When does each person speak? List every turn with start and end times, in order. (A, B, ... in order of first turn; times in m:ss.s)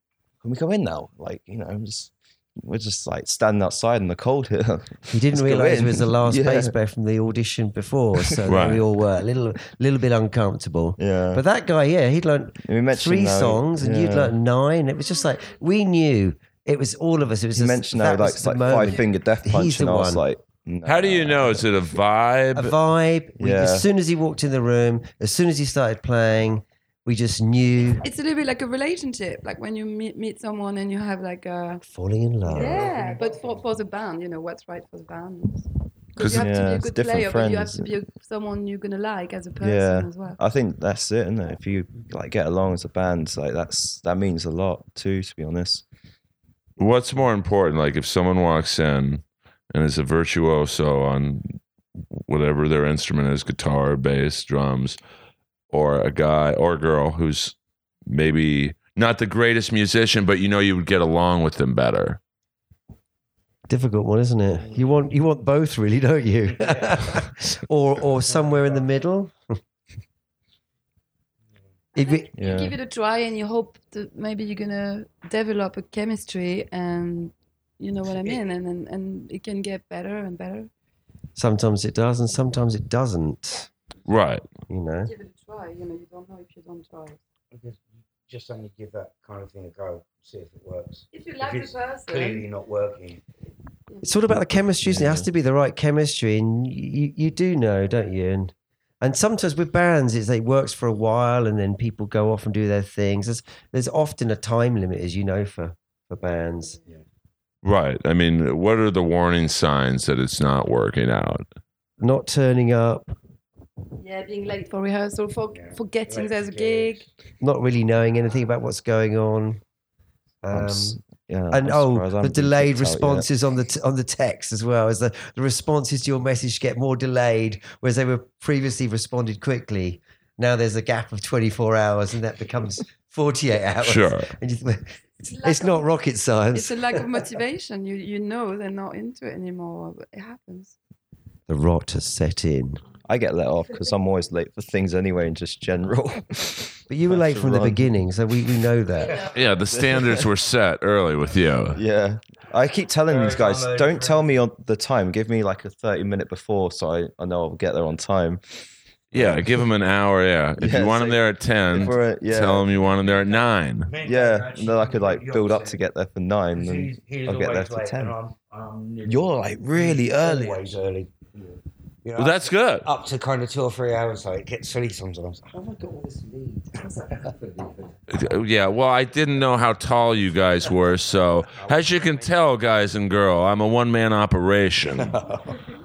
0:00.4-0:06.7 A
0:05.1-0:20.2 B
0:08.5-0:08.8 C
0:11.0-0:11.4 A
0:12.6-0:14.3 A
0:17.5-0:21.6 A
0:20.8-0:22.7 C
0:22.5-0:28.0 B
0:23.4-0:23.9 A
0:28.0-0:31.8 D
0:31.8-0:32.9 B
0:32.4-0:33.6 E
0:32.5-0:40.4 D
0:36.2-0:36.5 C
0:36.2-0:37.9 A
0:39.6-0:45.8 A
0:46.8-0:51.6 C
0:52.3-0:55.0 C
0:55.7-0:57.5 C
0:58.1-1:02.2 C
1:03.7-1:09.6 B
1:06.5-1:07.0 E
1:08.3-1:08.8 E
1:11.9-1:12.3 B
1:12.0-1:20.7 D
1:12.3-1:12.8 A
1:18.1-1:18.4 E
1:21.4-1:23.7 B
1:24.0-1:24.4 C
1:24.7-1:25.1 B
1:25.0-1:27.2 D
1:27.5-1:33.2 E
1:31.1-1:32.5 D
1:33.9-1:34.2 D
1:34.0-1:46.8 B
1:34.8-1:35.3 A
1:47.6-1:51.4 C
1:52.0-1:53.1 B
1:54.0-1:57.0 D
1:55.5-1:57.0 E
1:57.4-1:59.6 B
2:00.4-2:01.0 B
2:00.5-2:03.3 A
2:01.5-2:17.2 B
2:13.8-2:14.3 C
2:15.2-2:15.8 D
2:16.5-2:20.7 D
2:21.5-2:22.8 B
2:23.0-2:28.0 A
2:26.9-2:29.3 B
2:29.3-2:31.8 C
2:29.7-2:30.3 A
2:31.7-2:39.6 A
2:33.1-2:34.3 E
2:39.1-2:43.9 C
2:40.6-2:42.8 A
2:42.8-2:45.8 E
2:44.0-2:48.2 A
2:46.5-2:51.1 E
2:49.0-2:50.8 A
2:52.0-2:55.4 E
2:52.2-2:52.9 C
2:55.4-2:58.0 B
2:58.1-3:05.2 C
3:01.6-3:02.2 E
3:04.9-3:05.6 E